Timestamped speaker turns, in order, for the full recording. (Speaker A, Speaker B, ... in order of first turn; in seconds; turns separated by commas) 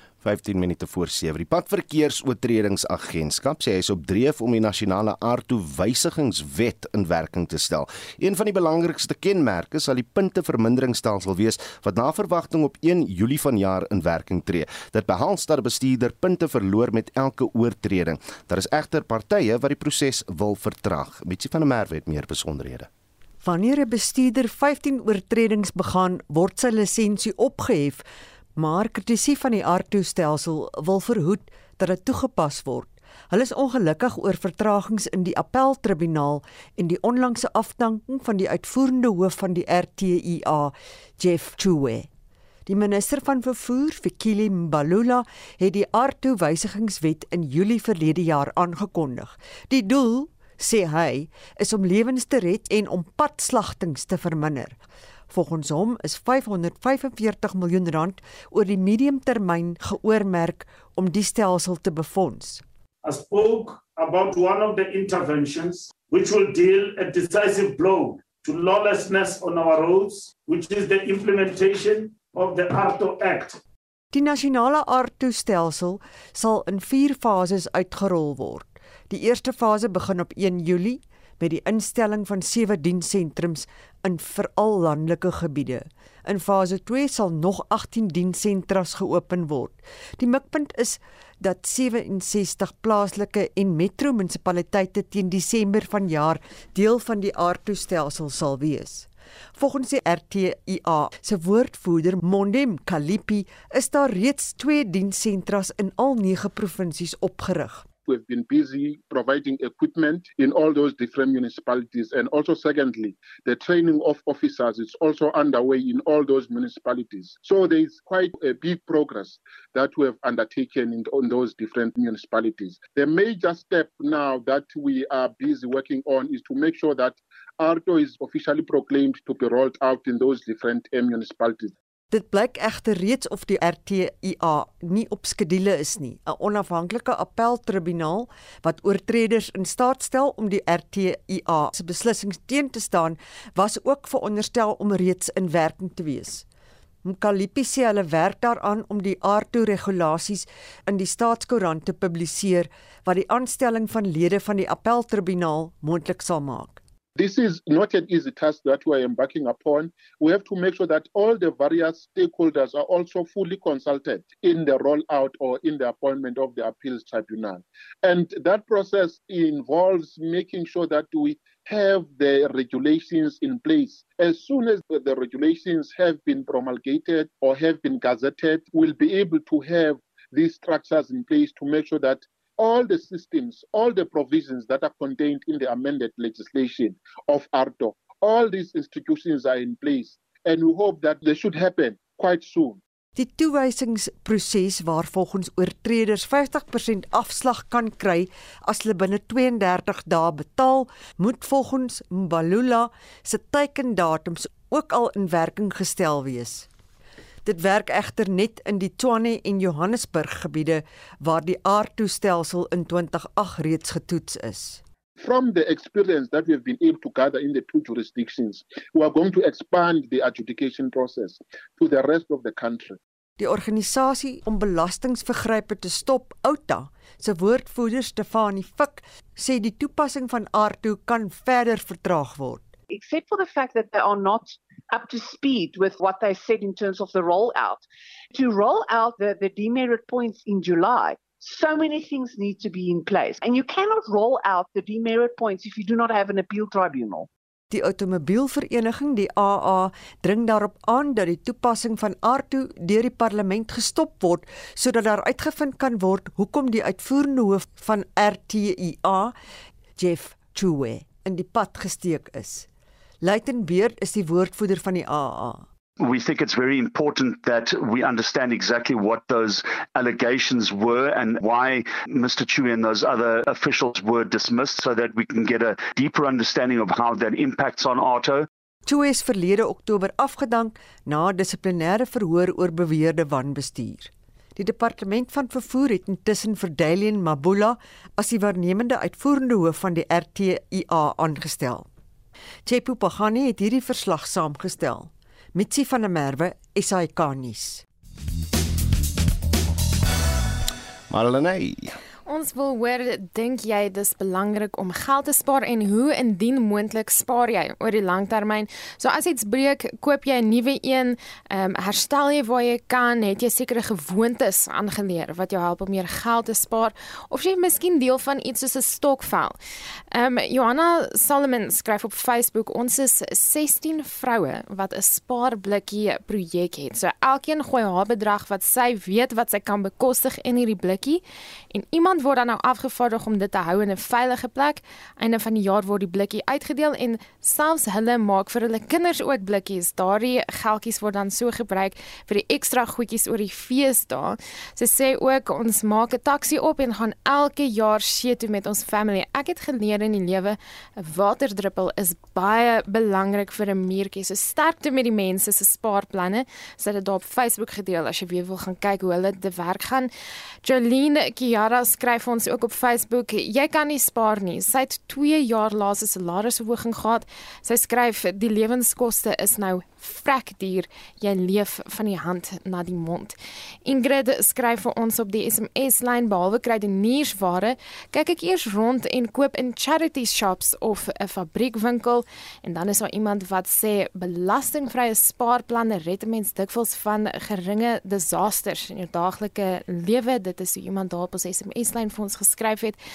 Speaker A: 0.2-22.9, Speaker B: 23.4-28.0, Speaker B: 28.6-42.0, Speaker B: 42.7-54.8, Speaker B: 55.3-62.6, Speaker C: 63.0-73.6, Speaker B: 74.1-99.1, Speaker B: 99.6-107.9, Speaker D: 108.0-131.7, Speaker B: 132.1-146.4, Speaker B: 147.1-156.8, Speaker D: 157.2-192.8, Speaker B: 193.2-206.7, Speaker B: 207.4-214.8, Speaker D: 215.2-223.0, Speaker B: 223.4-232.7, Speaker E: 232.9-247.3, Speaker B: 247.7-259.3, Speaker B: 260.0-262.7, Speaker B: 263.2-265.6, Speaker F: 266.0-278.5, Speaker B: 278.9-291.9, Speaker B: 292.7-297.8, Speaker A: 301.1-301.9, Speaker G: 302.3-319.6, Speaker G: 320.1-360.1, Speaker G: 360.6-393.0